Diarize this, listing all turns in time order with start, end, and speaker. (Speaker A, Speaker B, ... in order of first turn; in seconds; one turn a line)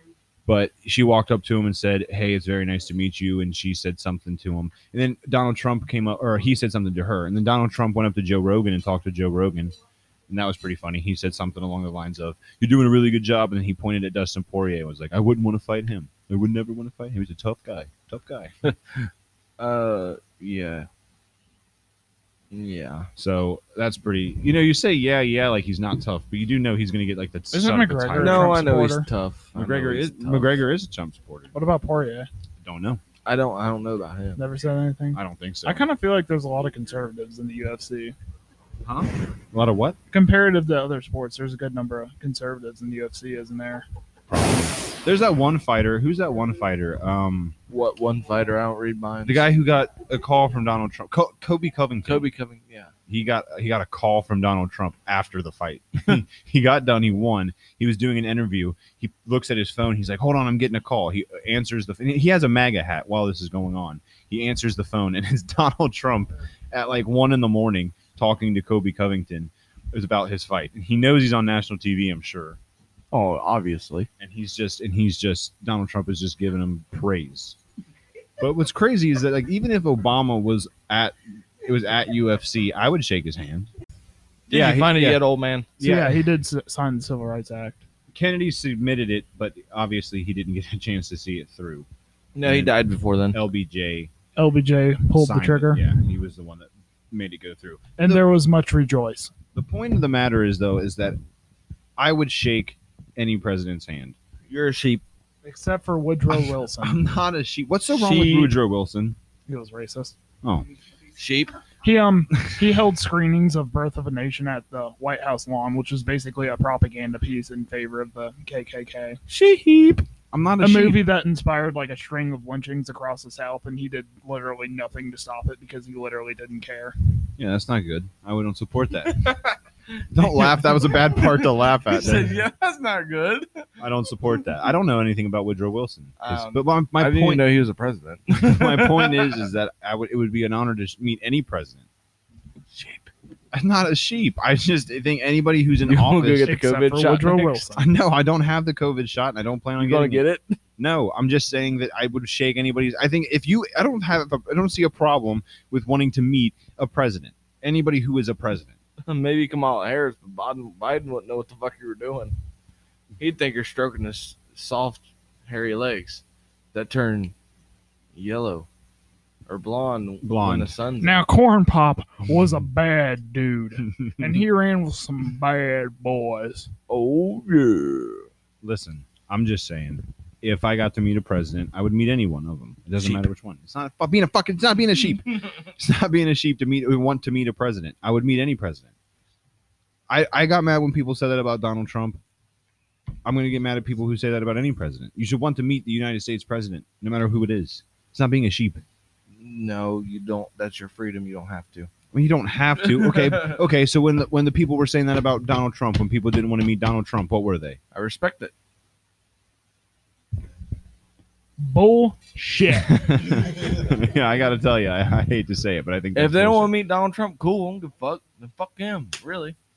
Speaker A: 0.5-9.7
Speaker A: 10.3-18.5
Speaker B: 19.6-20.9
Speaker B: 22.5-23.1
Speaker A: 23.2-28.6
Speaker C: 27.5-29.1
Speaker B: 28.2-30.6
Speaker A: 29.6-31.5
Speaker C: 31.5-32.3
Speaker A: 32.6-33.0
Speaker B: 33.2-34.4
Speaker C: 34.4-38.1
Speaker A: 35.1-35.8
Speaker A: 38.8-40.0
Speaker C: 40.1-43.8
Speaker A: 44.3-47.5
Speaker B: 47.7-49.5
Speaker A: 49.2-52.3
Speaker B: 52.0-52.9
Speaker A: 53.1-72.6
Speaker B: 73.1-74.1
Speaker A: 74.2-77.6
Speaker A: 78.4-83.7
Speaker B: 84.5-85.7
Speaker A: 84.5-85.2
Speaker A: 85.8-86.2
Speaker C: 85.8-87.8
Speaker A: 88.1-91.9
Speaker B: 92.3-93.4
Speaker A: 92.4-92.8
Speaker A: 93.3-94.1
Speaker C: 94.3-95.8
Speaker A: 95.1-98.2
Speaker C: 98.0-99.3
Speaker A: 99.5-101.2
Speaker A: 102.0-104.2
Speaker B: 104.5-105.0
Speaker C: 105.4-107.0
Speaker A: 106.3-109.2
Speaker B: 107.9-108.5
Speaker C: 109.5-110.1
Speaker B: 111.2-111.5
Speaker C: 111.8-119.2
Speaker B: 119.3-120.0
Speaker A: 120.3-121.1
Speaker C: 120.6-126.9
Speaker A: 127.4-129.4
Speaker B: 129.1-133.7
Speaker A: 130.1-132.4
Speaker A: 133.8-137.4
Speaker B: 136.2-139.4
Speaker A: 138.3-141.8
Speaker B: 142.7-143.1
Speaker A: 143.5-146.5
Speaker B: 145.8-147.6
Speaker C: 146.4-147.8
Speaker A: 147.7-150.2
Speaker B: 149.8-150.6
Speaker A: 150.8-158.7
Speaker B: 159.1-162.3
Speaker B: 163.2-166.2
Speaker B: 166.7-167.3
Speaker B: 168.1-168.7
Speaker B: 169.5-171.2
Speaker A: 170.2-170.7
Speaker C: 171.0-176.7
Speaker A: 174.0-174.4
Speaker B: 176.9-178.3
Speaker A: 178.6-188.9
Speaker B: 183.0-183.2
Speaker A: 190.1-192.2
Speaker A: 193.2-198.8
Speaker B: 199.4-201.9
Speaker A: 202.1-207.8
Speaker B: 202.8-203.6
Speaker B: 207.9-208.5
Speaker C: 211.6-213.2
Speaker A: 212.7-216.7
Speaker B: 216.1-219.6